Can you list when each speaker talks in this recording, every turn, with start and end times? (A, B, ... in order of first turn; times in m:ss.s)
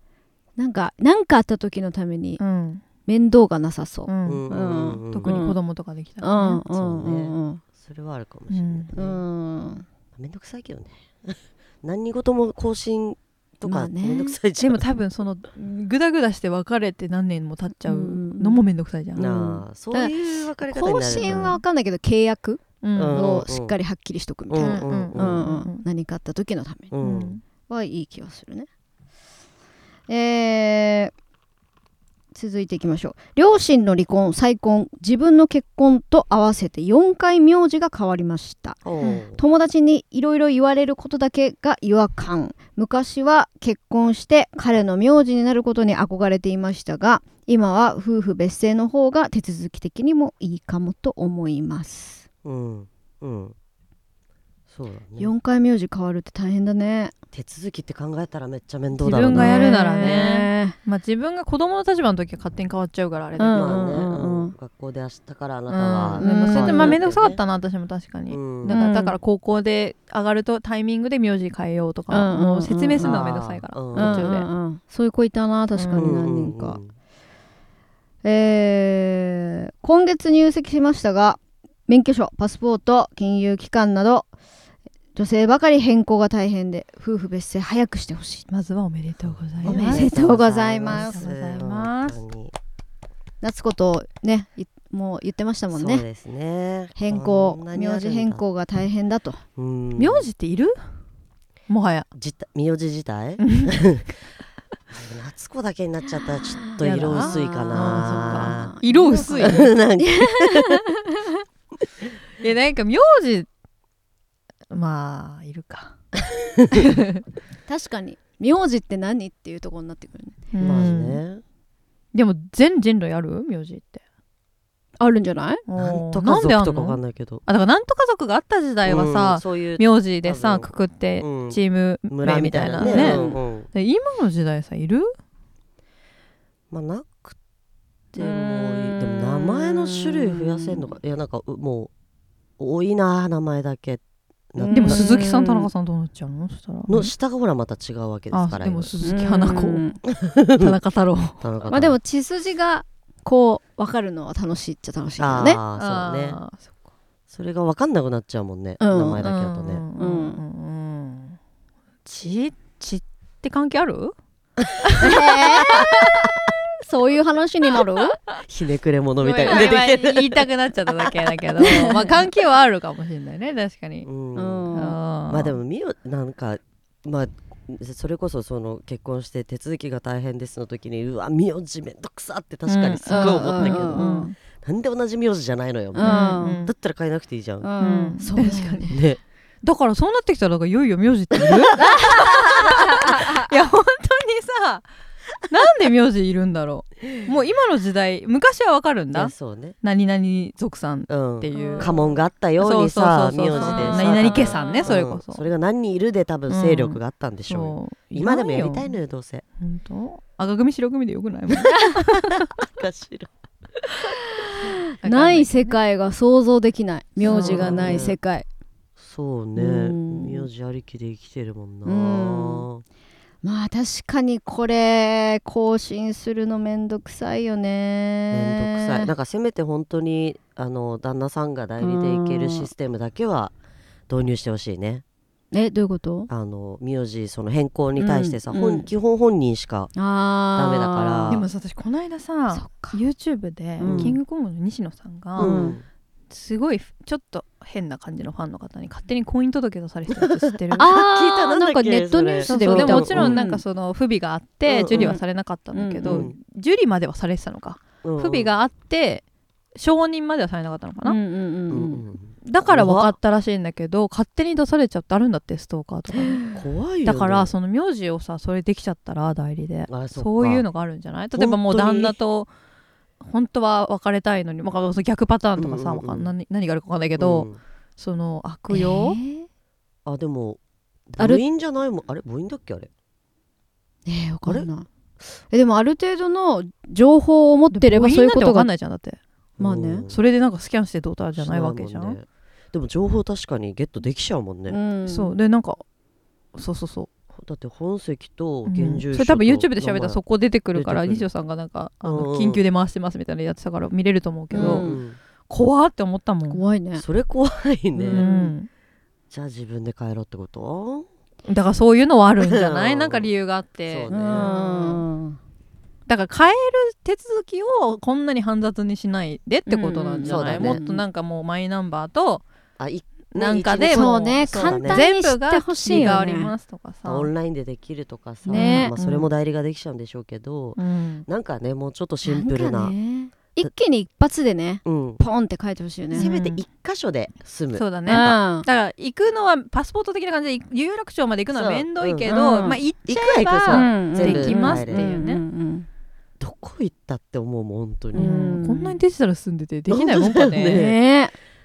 0:00.6-0:02.4 A
0:02.4-0:02.8 B
0:03.1-0:05.6 A
0:04.1-0:04.4 B
0:04.2-0:05.4 C
0:05.1-0:06.6 B
0:06.2-0:07.6 A
0:06.7-0:09.2 C
0:08.5-0:08.9 B
0:08.9-0:09.8 A
0:10.1-0:14.9 C
0:13.6-0:14.4 A
0:14.6-0:19.5 B
0:17.8-0:18.6 A
0:19.2-0:21.6 C
0:19.2-0:26.9 A
0:21.1-0:21.6 B
0:22.8-0:23.3 B
0:23.0-0:23.7 C
0:24.5-0:25.4 C
0:24.6-0:25.9 B
0:26.9-0:27.4 C
0:27.0-0:27.4 B
0:27.6-0:28.7 A
0:30.1-0:31.1 A
0:32.3-0:52.2 A
0:38.8-0:39.4 C
0:52.4-0:53.5 C
0:54.7-0:55.3 C
0:55.2-0:57.1 A
0:57.3-1:00.2 C
0:59.0-1:03.8 B
0:59.3-1:00.8 A
1:03.4-1:04.5 A
1:03.5-1:07.4 C
1:05.7-1:14.5 B
1:06.2-1:07.0 A
1:08.3-1:08.8 C
1:08.7-1:09.2 A
1:12.1-1:13.2 A
1:13.0-1:14.3 C
1:13.9-1:16.8 A
1:15.7-1:16.2 B
1:15.9-1:16.9 C
1:18.2-1:24.3 A
1:25.1-1:28.4 A
1:28.5-1:30.1 B
1:29.2-1:32.5 C
1:29.6-1:31.3 A
1:30.9-1:32.2 B
1:33.4-1:36.0 A
1:35.7-1:38.4 C
1:37.0-1:39.4 A
1:39.6-1:40.3 C
1:40.0-1:40.9 B
1:41.7-1:42.1 B
1:42.1-1:44.1 C
1:43.4-1:43.8 B
1:44.9-1:48.7 C
1:46.7-1:51.3 A
1:46.8-1:49.7 B
1:49.4-1:50.8 C
1:52.4-1:53.5 B
1:54.7-1:55.9 B
1:56.2-1:56.9 C
1:56.7-1:57.2 B
1:57.7-2:00.4 A
2:00.5-2:01.2 B
2:00.6-2:01.4 C
2:02.1-2:04.0 B
2:05.0-2:05.6 A
2:05.6-2:15.1 B
2:05.7-2:07.4 C
2:08.8-2:11.6 C
2:12.1-2:13.7 C
2:12.8-2:13.4 A
2:16.7-2:17.3 C
2:18.1-2:21.9 C
2:19.0-2:20.8 A
2:22.6-2:25.1 C
2:24.6-2:25.7 A
2:24.7-2:27.1 B
2:26.9-2:29.2 C
2:28.3-2:31.5 B
2:29.0-2:30.0 A
2:30.1-2:30.8 C
2:31.4-2:32.0 C
2:31.7-2:35.6 A
2:35.2-2:36.4 C
2:35.7-2:36.7 B
2:37.3-2:39.8 C
2:38.8-2:39.2 A
2:39.2-2:41.4 B
2:40.0-2:40.4 A
2:42.0-2:44.1 B
2:44.8-2:45.8 B
2:45.0-2:48.2 A
2:48.4-2:51.1 C
2:49.2-2:54.1 B
2:49.4-2:49.8 A
2:54.0-2:54.7 C
2:54.3-2:55.0 A
2:54.7-2:55.6 B
2:55.3-3:07.7 C
3:02.6-3:04.4 B
3:03.1-3:04.3 A
3:05.9-3:06.6 A
3:06.0-3:06.7 B
3:07.6-3:09.0 A
3:07.8-3:09.0 B
3:08.9-3:09.2 C
3:09.6-3:14.8 B
3:11.4-3:11.7 C
3:11.7-3:13.5 A
3:15.5-3:22.0 B
3:19.1-3:19.8 C
3:21.1-3:29.4 C
3:21.5-3:22.0 A
3:22.6-3:25.4 B
3:23.5-3:25.0 A
3:26.5-3:28.9 B
3:29.6-3:32.5 B
3:32.3-3:34.0 C
3:34.4-3:38.5 A
3:35.0-3:35.8 B
3:37.2-3:38.0 B
3:37.2-3:38.2 C
3:39.0-3:42.8 C
3:39.6-3:40.5 A
3:41.8-3:42.7 A
3:43.4-3:49.1 A
3:48.3-3:53.5 C
3:51.8-3:52.7 A
3:54.1-3:55.0 C
3:55.5-3:56.3 A
3:56.3-3:59.9 C
3:58.0-3:58.9 A
3:59.9-4:01.4 A
4:00.5-4:01.4 C
4:01.3-4:05.6 B
4:02.5-4:03.0 A
4:03.8-4:04.2 C
4:03.8-4:04.2 A
4:05.4-4:05.8 C
4:05.4-4:05.8 A
4:06.3-4:10.8 B
4:10.1-4:13.4 C
4:10.7-4:13.6 A
4:12.5-4:19.2 B
4:14.6-4:15.2 C
4:14.9-4:15.2 A
4:15.7-4:16.3 A
4:16.0-4:16.3 C
4:18.0-4:18.5 C
4:19.8-4:21.2 B
4:21.0-4:22.0 A
4:21.7-4:23.1 C
4:22.4-4:26.4 B
4:26.1-4:26.6 A
4:26.5-4:27.5 C
4:27.0-4:32.5 B
4:29.9-4:30.6 C
4:31.4-4:32.2 C
4:33.2-4:39.2 B
4:35.6-4:36.3 C
4:37.2-4:37.6 C
4:38.7-4:39.5 A
4:40.0-4:42.9 C
4:41.2-4:41.4 A
4:44.0-4:44.9 A
4:45.5-4:48.7 A
4:47.7-4:49.2 B
4:49.6-4:50.1 A
4:49.6-4:50.2 C
4:50.1-4:52.2 B
4:51.4-4:54.8 C
4:54.7-4:55.4 A
4:55.1-4:55.8 B
4:56.5-4:57.1 B
4:57.3-5:00.2 C
4:58.6-5:04.8 B
5:00.7-5:01.3 C
5:02.0-5:02.6 C
5:04.5-5:05.0 A
5:04.5-5:05.2 C
5:05.5-5:06.6 B
5:06.5-5:07.0 A
5:07.0-5:08.2 C
5:07.9-5:08.5 A
5:08.1-5:08.7 B
5:09.3-5:11.1 C
5:11.4-5:15.0 B
5:12.4-5:13.3 C
5:13.9-5:14.5 C
5:14.1-5:15.4 A
5:16.1-5:22.4 B
5:19.7-5:21.0 A
5:20.2-5:20.8 C
5:22.8-5:25.0 C
5:23.3-5:27.3 B
5:23.9-5:26.5 A
5:25.9-5:26.2 C
5:27.0-5:32.9 C
5:28.5-5:29.3 B
5:28.5-5:28.9 A
5:30.8-5:31.2 B
5:32.2-5:36.3 A
5:34.8-5:35.2 C
5:36.1-5:36.6 B
5:36.1-5:38.4 C
5:37.7-5:45.4 B
5:38.0-5:38.6 A
5:41.5-5:42.3 C
5:42.3-5:42.8 A
5:43.0-5:45.1 C
5:43.7-5:45.9 A
5:46.4-5:48.3 C
5:48.1-5:49.0 A
5:48.1-5:50.8 B
5:49.9-5:51.0 C
5:50.7-5:51.3 A